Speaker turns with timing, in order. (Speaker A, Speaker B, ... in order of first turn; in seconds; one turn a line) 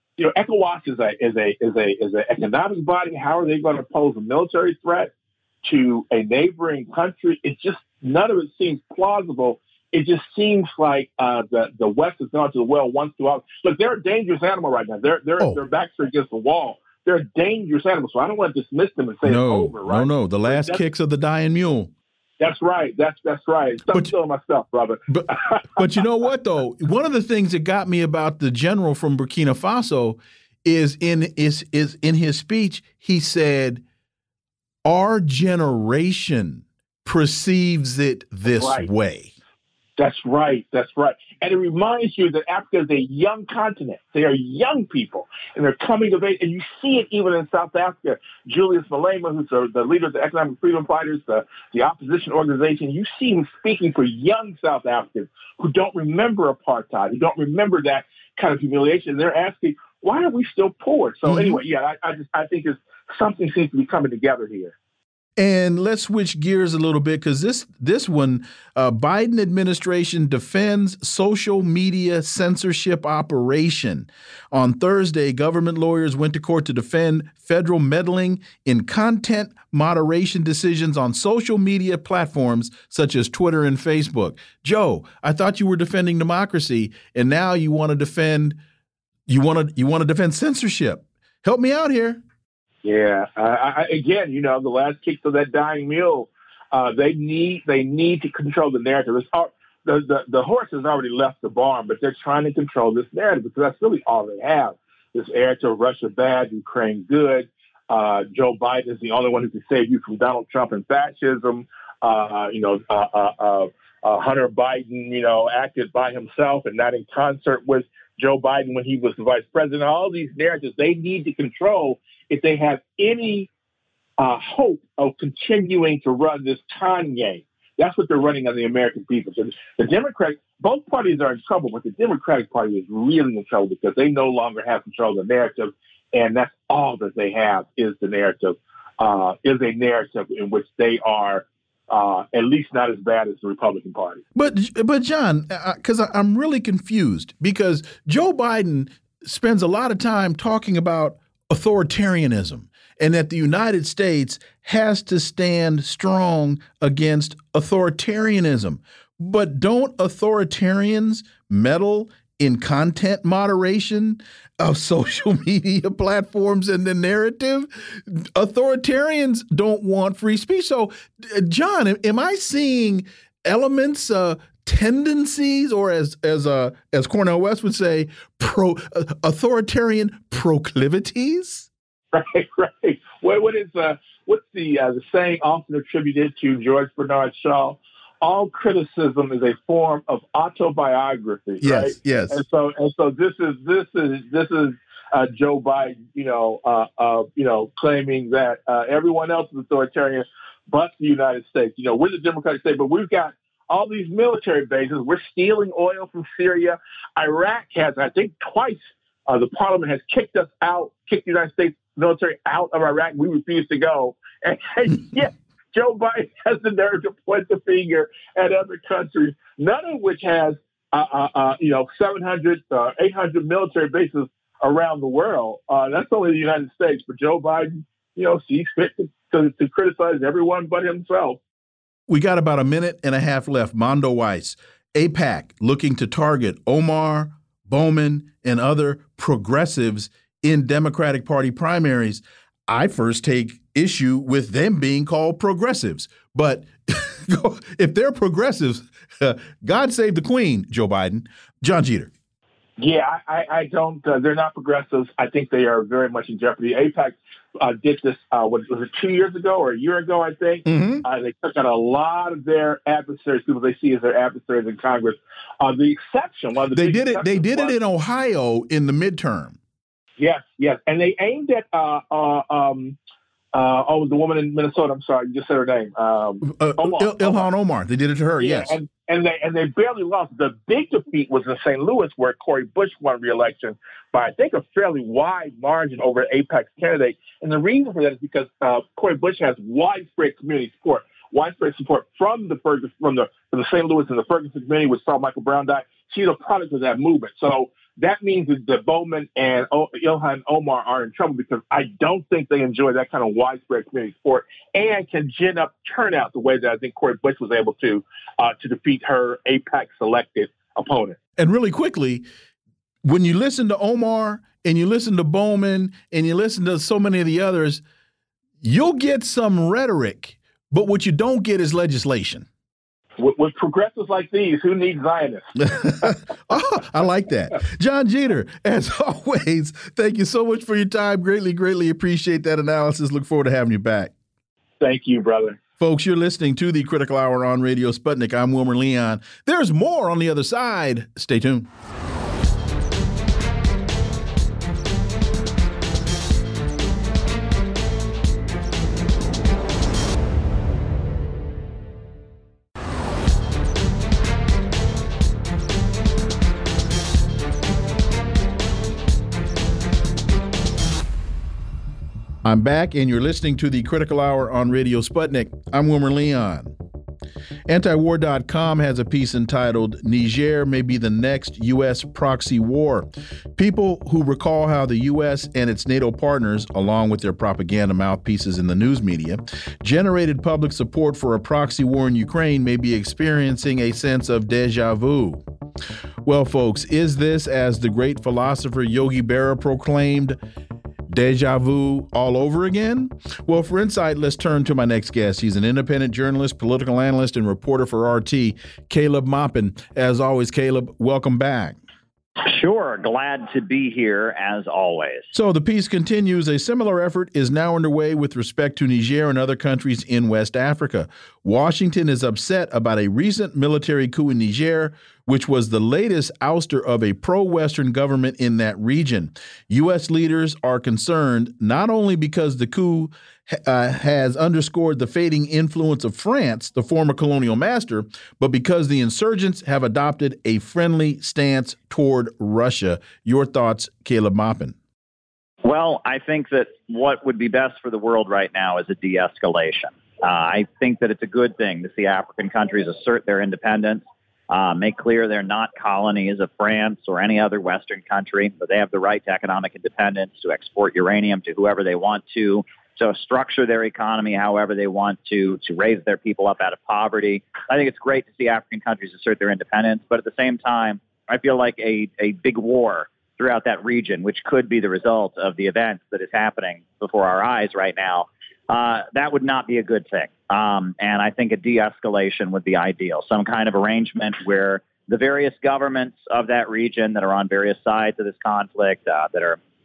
Speaker A: 0.2-5.1
Speaker A: 5.6-20.8
Speaker B: 19.2-21.9
Speaker A: 22.4-25.9
Speaker B: 25.1-33.8
Speaker B: 34.8-39.3
Speaker A: 38.5-38.9
Speaker A: 40.0-64.7
Speaker B: 61.3-61.6
Speaker B: 65.4-88.6
Speaker B: 89.3-92.2
Speaker A: 92.8-123.5
Speaker A: 124.2-144.2
Speaker B: 144.3-181.7
Speaker A: 182.1-231.4
Speaker B: 191.6-192.4
Speaker B: 232.1-252.1
Speaker A: 252.8-267.7
Speaker B: 260.6-261.1
Speaker B: 266.7-269.6
Speaker A: 270.2-273.0
Speaker A: 273.5-277.5
Speaker B: 276.4-278.8
Speaker A: 278.4-311.2
Speaker B: 311.4-312.3
Speaker B: 313.0-317.8
Speaker B: 318.6-322.5
Speaker A: 323.2-325.5
Speaker B: 325.6-334.1
Speaker A: 334.8-335.6
Speaker B: 335.8-341.7
Speaker B: 362.4-366.7
Speaker B: 367.7-385.4
Speaker B: 386.2-390.4
Speaker B: 391.1-401.8
Speaker C: 402.4-405.2
Speaker B: 405.3-434.7
Speaker C: 435.6-479.6